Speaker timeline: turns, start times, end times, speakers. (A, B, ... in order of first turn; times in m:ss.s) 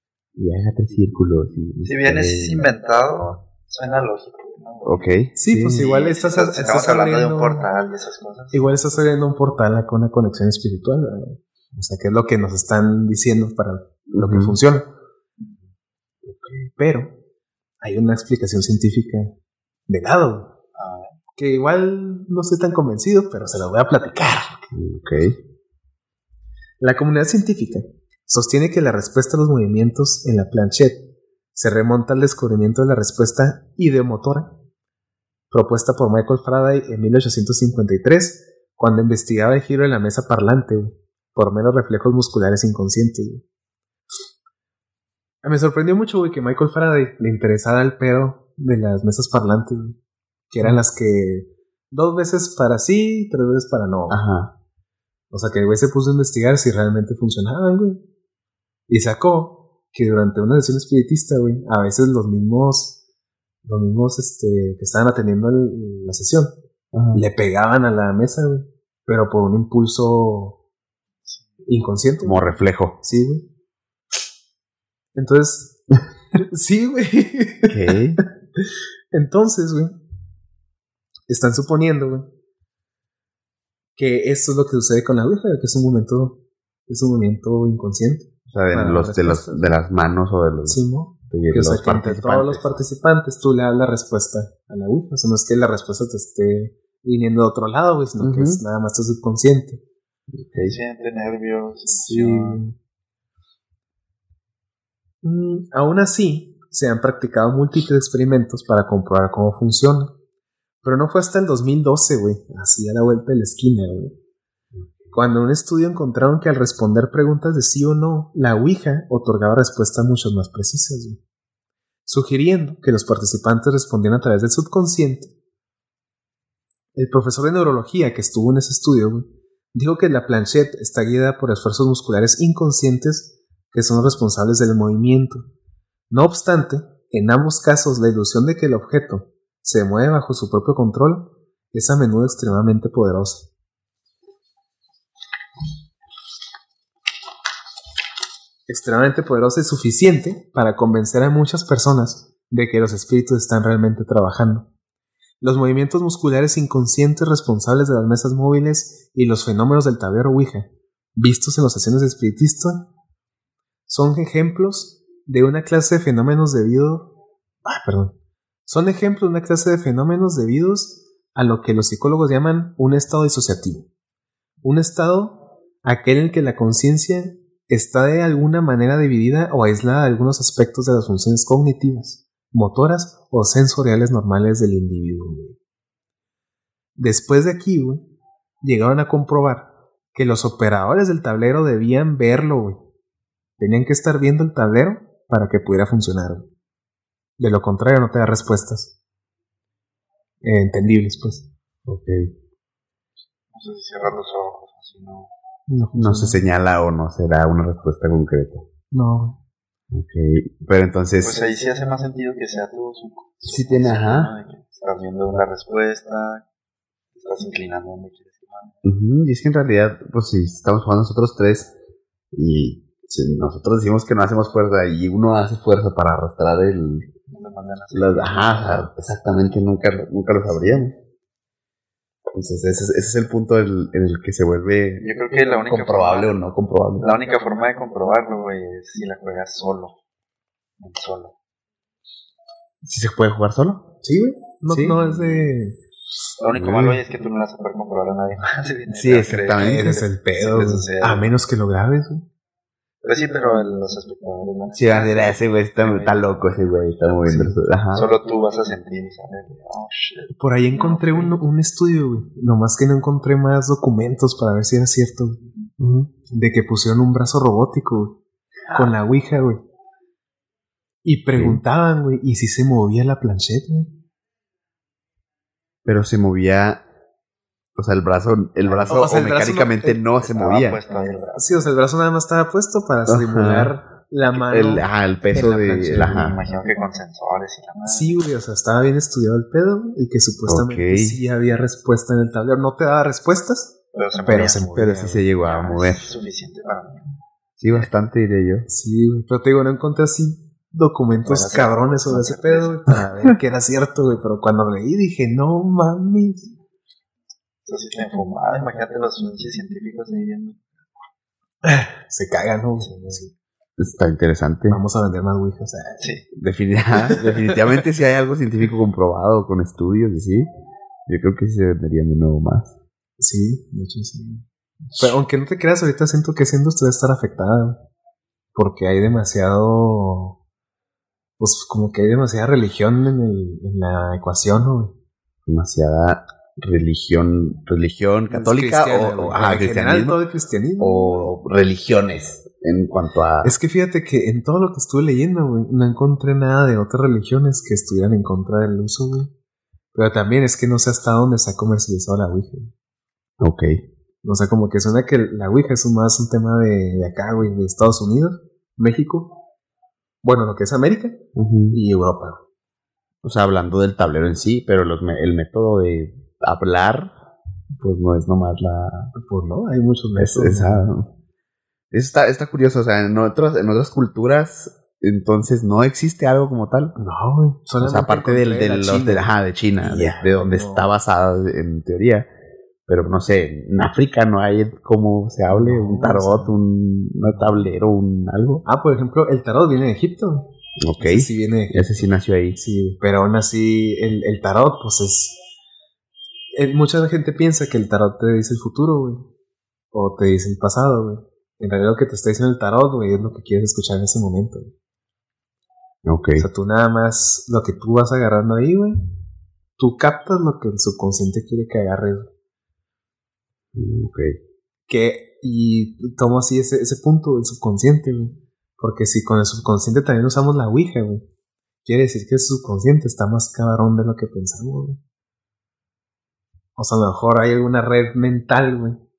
0:00.4-0:02.7 A
0:01.8-0:08.7 B
0:04.8-0:05.8 A
0:05.4-0:07.7 C
0:08.5-0:14.9 C
0:14.1-0:14.6 A
0:15.4-0:15.7 B
0:16.2-0:16.7 A
0:16.8-0:17.1 C
0:17.8-0:19.4 C
0:19.9-0:20.5 C
0:20.8-0:21.2 B
0:21.4-0:24.7 C
0:24.7-0:25.4 A
0:26.8-0:34.6 C
0:35.5-0:43.4 C
0:45.4-0:50.0 C
0:50.5-0:54.2 C
0:54.1-0:54.5 A
0:55.3-0:58.0 C
0:58.9-1:03.0 C
1:03.6-1:06.6 C
1:06.9-1:07.2 A
1:07.1-1:10.6 C
1:11.7-1:13.5 C
1:12.2-1:13.0 A
1:15.2-1:15.8 C
1:16.3-1:20.0 C
1:17.7-1:18.2 A
1:21.3-1:22.3 C
1:24.0-1:29.7 C
1:28.5-1:32.8 A
1:30.6-1:39.8 C
1:38.2-1:38.6 A
1:40.3-1:40.8 A
1:40.6-1:42.6 B
1:41.9-1:42.8 C
1:45.2-1:50.1 C
1:50.8-1:54.2 C
1:55.1-2:01.2 C
2:02.1-2:05.3 C
2:07.0-2:15.5 C
2:16.1-2:23.5 C
2:28.7-2:34.7 C
2:35.4-2:42.9 C
2:43.9-2:48.2 C
2:48.7-2:53.9 C
2:54.6-3:05.6 C
3:07.0-3:08.1 C
3:08.6-3:12.8 C
3:13.6-3:16.5 C
3:17.4-3:19.0 C
3:20.4-3:21.5 C
3:21.9-3:22.3 A
3:23.5-3:25.3 B
3:25.7-3:26.4 C
3:26.0-3:28.7 A
3:28.9-3:29.4 C
3:29.9-3:31.4 A
3:31.2-3:36.4 B
3:33.4-3:34.3 A
3:37.1-3:38.8 B
3:38.8-3:41.7 A
3:42.3-3:47.1 A
3:47.3-3:48.9 B
3:47.9-3:51.0 A
3:52.3-3:55.1 A
3:55.0-3:56.4 B
3:55.6-3:57.1 A
3:57.0-4:00.0 B
4:00.8-4:01.4 B
4:02.8-4:03.9 A
4:04.0-4:05.8 C
4:04.7-4:05.5 A
4:06.4-4:11.3 B
4:06.5-4:07.0 A
4:08.9-4:10.0 A
4:09.6-4:12.3 C
4:13.0-4:16.8 B
4:14.7-4:18.1 A
4:17.3-4:17.5 C
4:17.9-4:21.4 B
4:20.3-4:25.4 C
4:25.8-4:26.1 A
4:26.3-4:28.2 C
4:28.7-4:29.6 C
4:31.0-4:33.9 C
4:31.4-4:31.6 A
4:35.8-4:36.8 A
4:37.8-4:40.8 A
4:38.6-4:39.2 B
4:38.9-4:40.0 C
4:40.2-4:41.7 B
4:41.4-4:46.3 C
4:43.1-4:43.8 A
4:44.3-4:46.4 A
4:46.0-4:48.2 B
4:47.8-4:55.3 C
4:50.5-4:51.2 A
4:53.9-4:54.7 B
4:54.7-4:56.1 A
4:55.4-4:57.1 B
4:57.6-4:58.7 A
4:58.7-5:06.5 C
5:01.2-5:02.8 B
5:02.9-5:03.3 A
5:07.6-5:10.6 B
5:11.6-5:13.3 C
5:12.8-5:13.2 B
5:13.8-5:14.8 A
5:14.7-5:16.0 C
5:16.0-5:16.3 B
5:16.3-5:20.5 A
5:17.0-5:17.6 C
5:21.1-5:22.7 A
5:23.2-5:24.4 C
5:25.0-5:27.8 C
5:28.6-5:30.4 C
5:31.4-5:34.9 C
5:35.5-5:40.2 A
5:38.3-5:41.3 C
5:40.8-5:43.5 A
5:43.4-5:49.3 C
5:49.9-5:52.7 C
5:53.4-5:53.8 A
5:54.2-5:59.4 C
6:00.2-6:02.4 C
6:01.4-6:01.8 A
6:03.2-6:07.1 A
6:07.8-6:09.1 A
6:09.2-6:10.9 C
6:10.2-6:11.1 A
6:11.9-6:17.0 A
6:17.0-6:20.9 C
6:17.8-6:22.3 A
6:22.9-6:28.6 A
6:25.5-6:26.6 C
6:27.2-6:27.6 C
6:28.6-6:31.9 C
6:30.8-6:32.6 A
6:32.6-6:35.4 C
6:36.5-6:39.3 C
6:39.9-6:44.7 C
6:46.0-6:46.5 A
6:46.4-6:49.0 C
6:49.8-6:52.3 C
6:53.7-6:54.4 A
6:54.9-7:01.2 C
7:01.8-7:05.0 C
7:06.8-7:09.0 C